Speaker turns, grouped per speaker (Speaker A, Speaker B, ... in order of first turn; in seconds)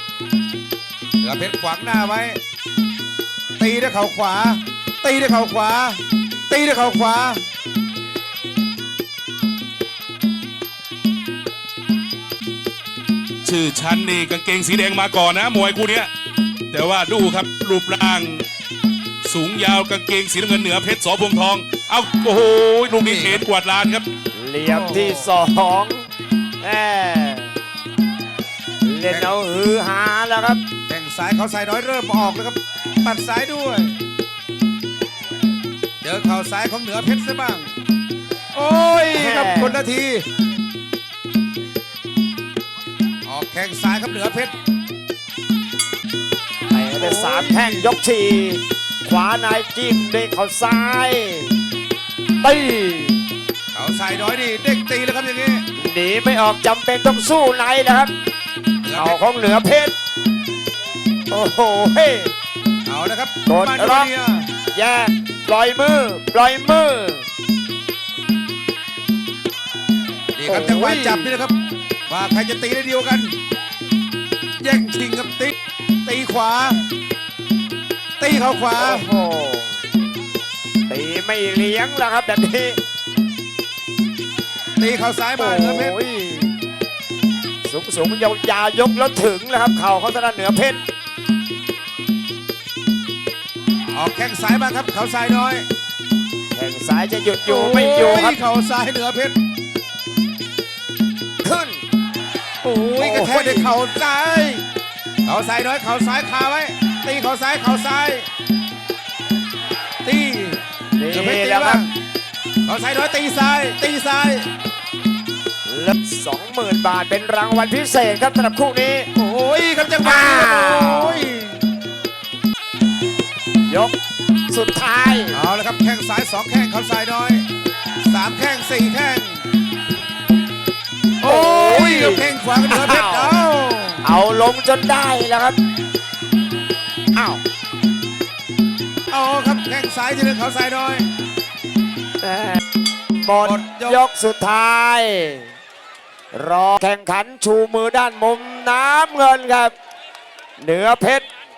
Speaker A: 1.2-2.4, 3.6-7.4, 23.0-23.4, 24.6-25.3, 29.1-29.3, 30.9-33.9, 36.0-37.7, 38.5-40.2, 43.2-44.5, 46.9-47.9, 53.7-55.6, 58.8-59.2, 62.9-64.5, 70.3-71.5, 72.1-73.3, 74.6-76.8, 78.2-79.0, 84.8-86.0, 93.9-95.7, 97.5-99.3, 102.6-104.6, 105.2-108.3, 110.0-111.9, 112.7-114.5, 119.1-121.6, 125.3-127.5, 128.0-129.5, 131.2-134.0, 139.1-141.1, 143.4-144.0
Speaker B: 13.4-16.1, 16.7-18.4, 19.2-24.1
Speaker C: 24.3-26.1, 26.6-27.6, 28.8-30.6, 39.1-39.8, 46.7-51.6, 52.4-53.2, 55.7-58.1, 58.9-59.9, 61.3-62.3, 63.5-64.1, 64.7-67.3, 70.5-71.4, 78.8-79.8, 80.9-82.8, 85.4-86.6, 87.6-90.8, 96.5-98.4, 101.4-101.8, 103.0-103.8, 111.0-111.8, 115.7-119.1, 119.9-121.3, 123.7-123.9, 124.5-125.5, 131.2-133.4, 134.0-135.6, 137.1-137.4, 142.2-142.6, 143.2-145.5, 146.3-149.7, 150.6-151.2